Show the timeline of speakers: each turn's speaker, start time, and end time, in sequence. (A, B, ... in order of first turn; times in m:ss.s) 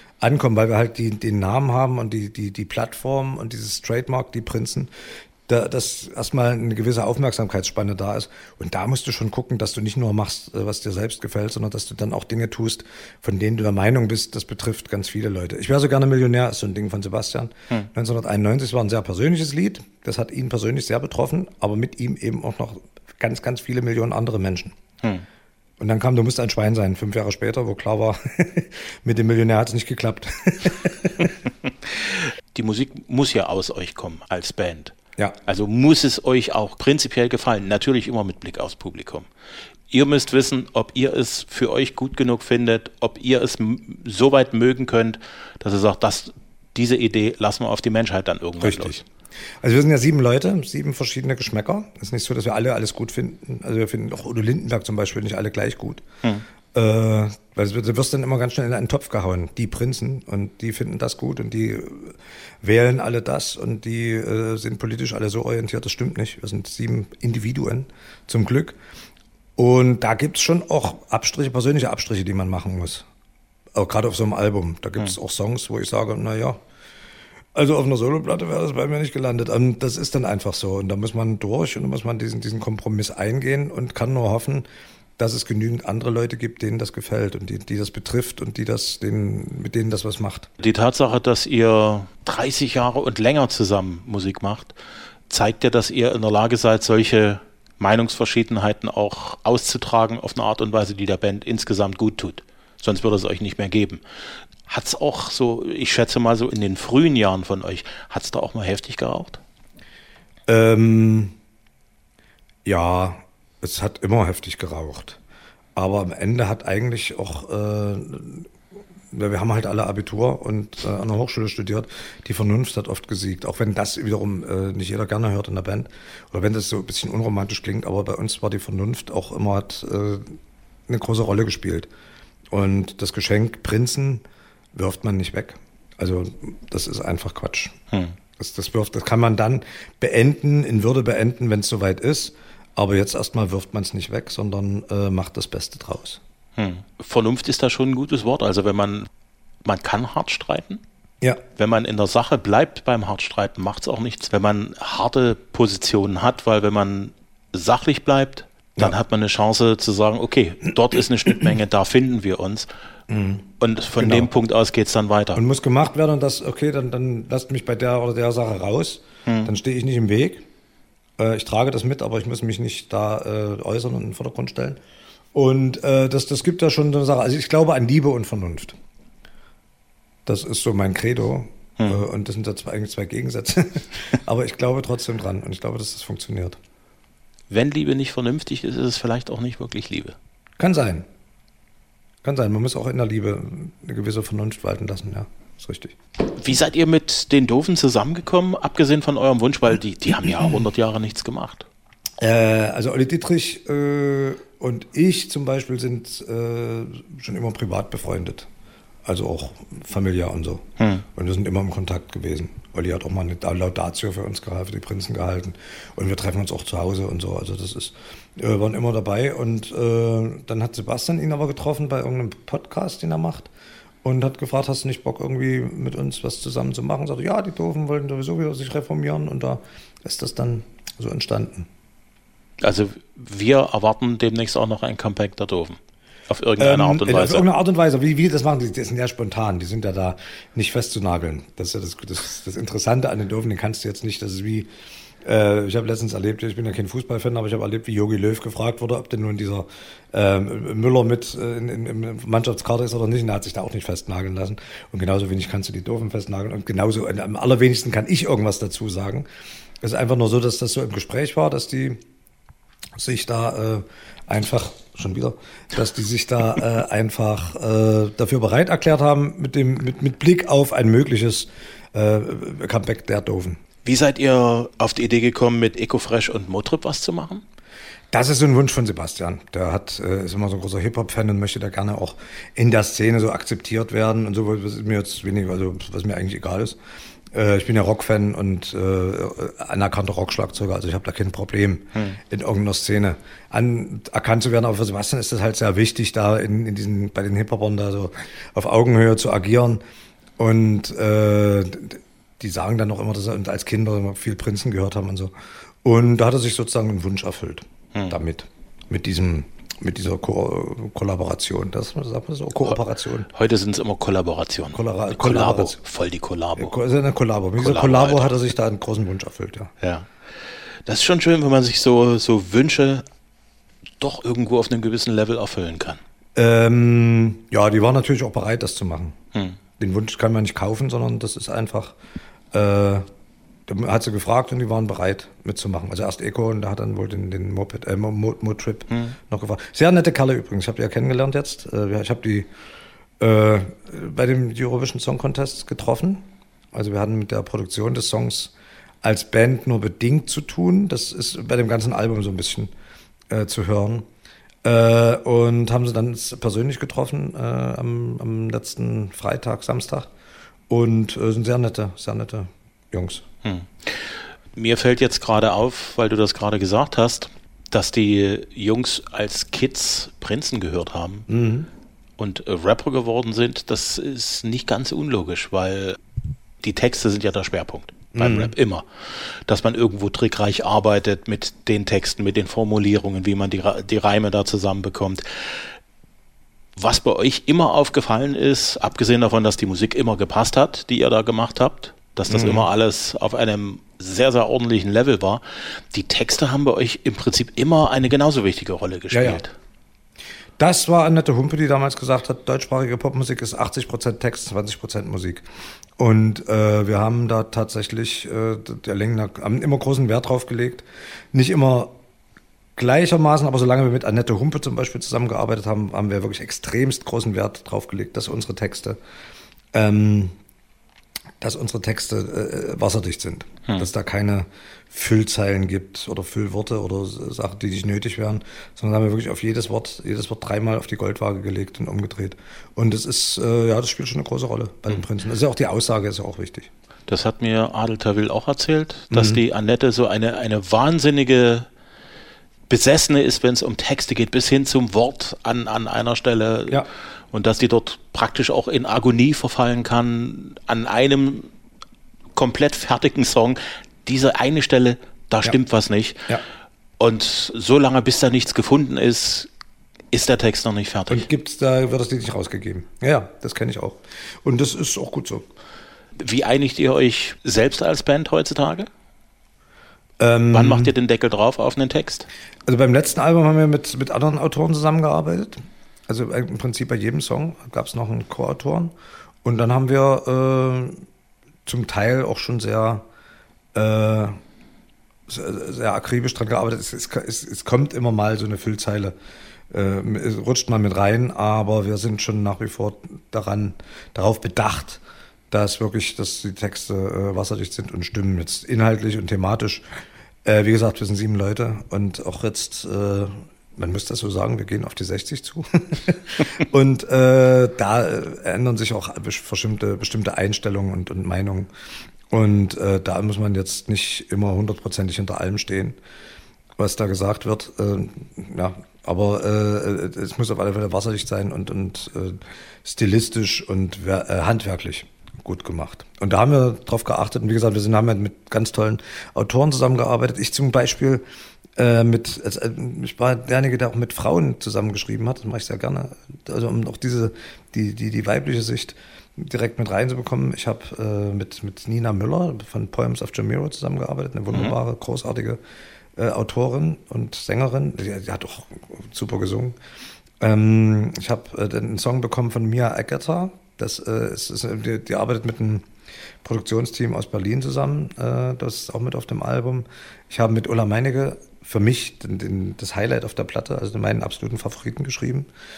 0:00.2-0:04.9 A
0:05.5-0:24.8 A
0:25.8-0:31.4 A
0:32.5-0:34.9 B
0:35.4-0:39.3 B
0:39.9-0:49.0 B
0:48.6-0:49.0 A
0:49.6-0:56.0 A
0:56.7-1:08.8 A
1:09.6-1:13.1 A
1:13.8-1:16.6 A
1:17.6-1:24.7 A
1:25.2-1:30.5 A
1:30.6-1:34.8 B
1:35.3-1:44.0 B
1:44.7-1:49.4 B
1:50.5-1:51.3 A
1:52.6-1:55.2 A
1:55.8-1:58.5 A
1:59.1-2:10.4 A
2:10.9-2:11.9 A
2:12.5-2:14.2 A
2:14.7-2:17.8 A
2:17.9-2:18.2 B
2:18.4-2:26.2 A
2:26.6-2:29.1 B
2:29.6-2:30.8 B
2:31.6-2:42.7 B
2:43.1-2:44.3 A
2:43.6-2:45.4 B
2:45.4-2:50.5 A
2:49.3-2:49.5 B
2:51.2-2:54.8 A
2:55.3-2:58.8 A
3:00.3-3:06.6 A
3:07.5-3:10.2 B
3:10.6-3:11.1 A
3:12.2-3:16.0 A
3:16.3-3:21.7 B
3:22.2-3:28.5 A
3:29.0-3:43.5 A
3:30.8-3:31.0 B
3:44.0-3:51.7 A
3:52.6-3:57.5 B
3:56.6-4:04.7 A
4:05.2-4:19.3 A
4:19.8-4:22.0 A
4:23.0-4:33.6 A
4:33.8-4:37.4 B
4:38.1-4:46.8 A
4:47.3-4:59.8 A
5:00.4-5:05.3 A
5:05.8-5:13.3 A
5:13.3-5:16.7 B
5:14.7-5:15.8 A
5:16.6-5:19.7 A
5:17.6-5:18.4 B
5:19.8-5:20.1 B
5:20.9-5:23.0 B
5:24.0-5:26.0 B
5:26.4-5:29.2 A
5:29.8-5:32.0 A
5:32.5-5:33.0 A
5:33.7-5:42.5 A
5:38.9-5:39.2 B
5:43.2-5:52.7 A
5:53.3-5:54.1 A
5:54.6-6:00.1 A
6:00.7-6:03.2 A
6:03.4-6:11.3 B
6:11.3-6:11.7 A
6:12.2-6:16.0 B
6:16.6-6:25.5 B
6:18.1-6:18.5 A
6:26.8-6:35.4 B
6:32.3-6:32.7 A
6:35.9-6:39.5 B
6:39.1-6:39.4 A
6:40.6-6:45.4 A
6:46.0-6:51.9 A
6:52.8-6:59.0 A
6:59.7-7:00.3 A
7:01.4-7:16.7 A
7:17.1-7:21.7 B
7:19.1-7:19.4 A
7:22.7-7:31.5 B
7:32.4-7:36.3 B
7:37.0-7:39.5 B
7:40.1-7:41.3 B
7:41.1-7:45.5 A
7:46.2-7:48.9 B
7:50.2-7:50.9 A
7:50.5-7:52.3 B
7:52.7-7:58.9 A
7:59.4-8:01.0 A
8:01.7-8:03.0 A
8:03.7-8:04.4 A
8:05.3-8:09.2 A
8:09.7-8:19.8 A
8:20.4-8:31.7 A
8:32.3-8:36.0 A
8:36.8-8:51.2 A
8:51.8-9:05.6 A
9:04.5-9:04.8 B
9:06.2-9:09.8 A
9:10.4-9:15.8 A
9:16.4-9:25.5 A